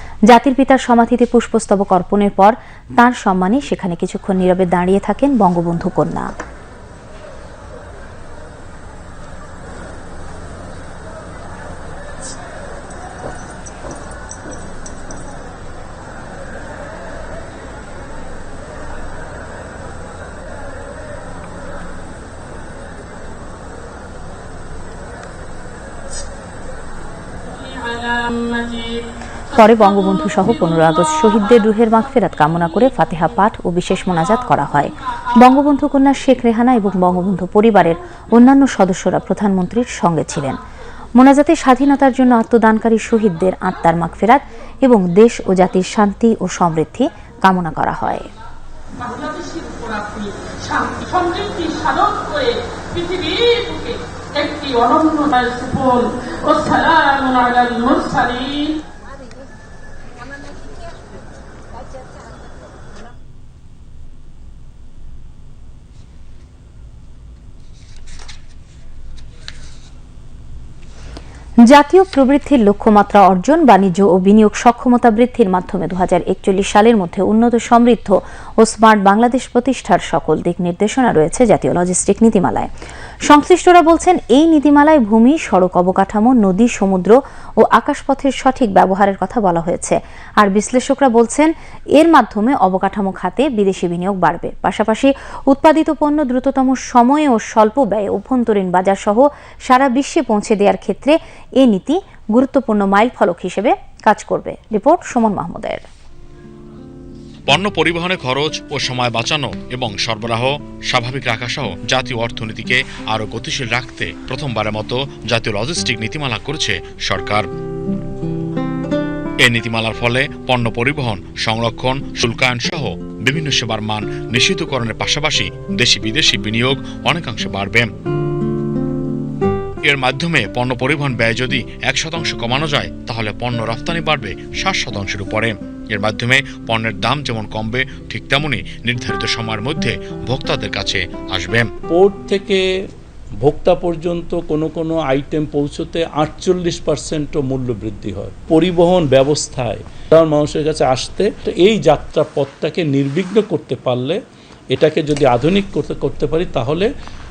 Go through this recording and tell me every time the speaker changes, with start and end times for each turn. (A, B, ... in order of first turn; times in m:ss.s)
0:00.3-0:06.3 A
0:27.4-0:29.0 B
0:29.5-0:40.6 A
0:29.6-0:31.6 B
0:41.2-0:48.3 A
0:49.0-0:58.8 B
1:11.6-1:22.7 A
1:23.3-1:45.8 A
1:47.5-1:57.5 C
1:59.4-2:07.9 C
2:09.9-2:21.7 C
2:21.9-2:22.6 D
2:23.4-2:34.2 D
2:34.7-2:36.9 D